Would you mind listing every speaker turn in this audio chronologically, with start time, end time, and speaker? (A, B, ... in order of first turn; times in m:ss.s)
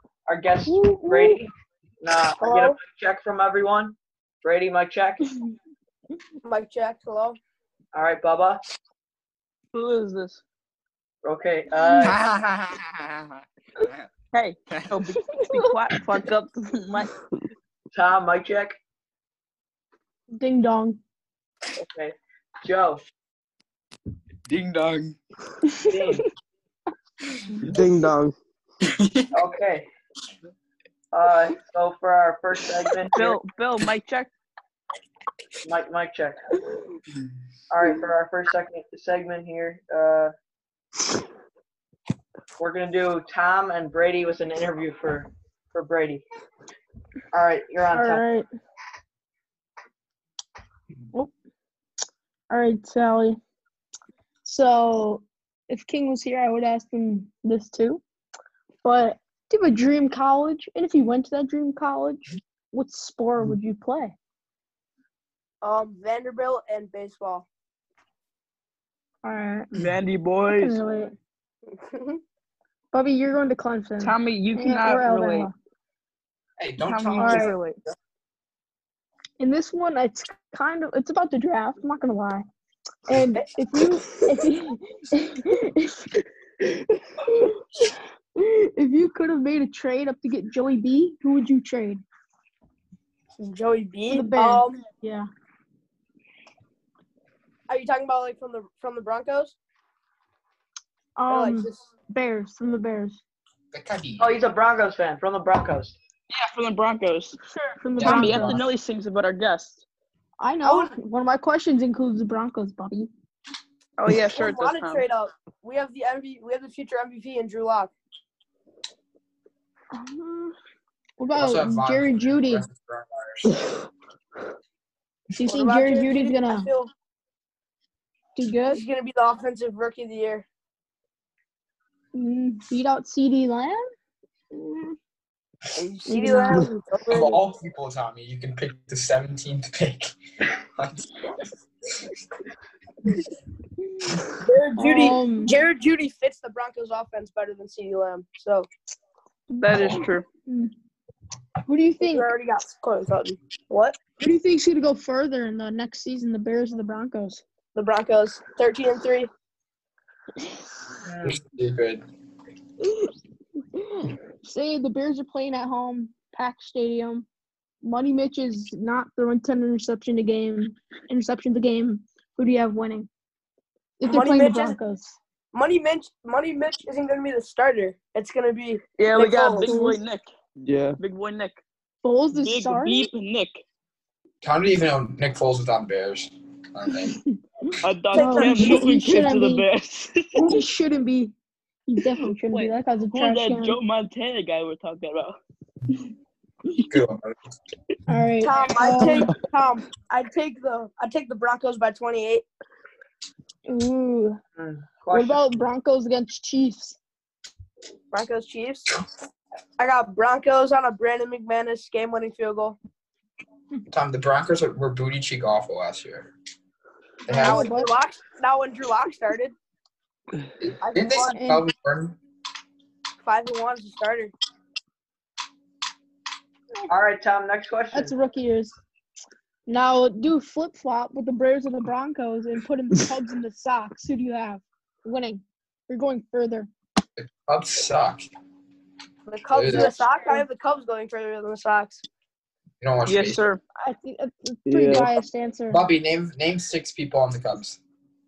0:00.2-0:01.5 A
0:00.7-0:01.3 B
0:00.8-0:01.2 C
0:02.0-0:05.3 A
0:02.4-0:02.8 C
0:06.4-0:07.4 C
0:07.9-0:08.6 A
0:09.7-0:10.4 D
0:11.2-0:12.2 A
0:12.0-0:14.1 E
0:14.3-0:17.1 D
0:14.7-0:15.0 E
0:15.4-0:15.7 B
0:17.9-0:18.8 A
0:20.3-0:21.0 B
0:21.8-0:23.0 A
0:24.5-0:25.2 E
0:25.7-0:26.0 B
0:25.8-0:26.2 A
0:27.6-0:28.3 F
0:28.8-0:29.3 E
0:29.3-0:29.9 A
0:31.1-0:33.4 A
0:33.1-0:34.3 D
0:35.6-0:36.4 A
0:37.7-0:40.3 A
0:42.6-0:46.2 A
0:47.3-0:48.2 A
0:47.9-0:48.5 B
0:52.5-0:53.4 B
0:54.4-0:58.0 B
0:58.8-1:04.2 B
1:05.6-1:07.5 C
1:09.2-1:09.7 B
1:09.8-1:10.8 D
1:10.5-1:11.1 B
1:11.7-1:12.2 C
1:12.9-1:15.5 B
1:14.0-1:15.5 D
1:16.6-1:17.5 E
1:16.8-1:17.8 D
1:17.2-1:17.5 B
1:19.4-1:22.4 B
1:23.1-1:26.2 B
1:27.2-1:32.0 B
1:33.4-1:34.8 C
1:34.1-1:35.3 B
1:37.7-1:39.6 C
1:41.2-1:43.2 B
1:41.3-1:41.7 C
1:43.7-1:44.4 E
1:44.2-1:46.0 A
1:46.3-1:47.4 D
1:47.5-1:48.6 B
1:48.0-1:48.7 E
1:48.0-1:49.8 D
1:50.4-1:53.1 B
1:50.6-1:50.9 C
1:54.0-1:55.0 D
1:54.3-1:57.9 C
1:59.9-2:00.5 B
2:01.2-2:02.7 B
2:01.3-2:03.5 E
2:05.3-2:06.7 B
2:05.4-2:06.9 C
2:08.4-2:08.8 B
2:08.7-2:10.4 C
2:12.1-2:13.8 B
2:15.8-2:17.4 C
2:16.1-2:16.7 B
2:17.1-2:20.1 E
2:20.8-2:21.1 E
2:24.4-2:28.7 C
2:24.8-2:25.5 B
2:29.5-2:30.2 D
2:29.7-2:30.0 E
2:30.5-2:30.7 B
2:31.7-2:32.3 B
2:32.0-2:34.0 C
2:34.2-2:37.4 B
2:37.8-2:39.3 C
2:41.0-2:41.4 A
2:41.2-2:42.0 E
2:43.8-2:47.2 B
2:47.8-2:53.1 B
2:54.0-2:55.2 B
2:54.0-2:54.8 C
2:55.5-2:59.7 C
2:59.0-3:00.2 D
2:59.6-3:00.0 B
3:00.6-3:01.0 F
3:01.0-3:01.6 D
3:02.0-3:03.1 B
3:02.3-3:03.6 D
3:04.4-3:07.2 E
3:07.0-3:09.6 B
3:07.8-3:10.4 D
3:08.1-3:08.8 C
3:10.3-3:11.3 B
3:11.9-3:13.8 B
3:12.5-3:15.4 D
3:16.9-3:17.3 E
3:18.1-3:19.3 B
3:18.4-3:22.4 C
3:19.0-3:19.4 F
3:23.7-3:24.4 B
3:24.6-3:25.4 A
3:25.1-3:27.0 B
3:28.1-3:28.9 C
3:29.8-3:32.8 C
3:33.9-3:36.3 E
3:37.3-3:37.7 E
3:37.3-3:37.9 B
3:37.3-3:39.5 C
3:40.6-3:42.2 E
3:40.8-3:41.3 C
3:41.3-3:41.6 B
3:43.2-3:44.3 C
3:46.9-3:48.1 A
3:47.9-3:48.8 B
3:49.7-3:56.7 B
3:57.2-3:58.3 E
3:59.3-4:02.0 C
3:59.5-3:59.9 E
3:59.7-4:00.4 B
4:02.8-4:03.4 E
4:03.0-4:03.6 D
4:03.8-4:05.8 B
4:04.7-4:05.1 F
4:05.7-4:07.8 E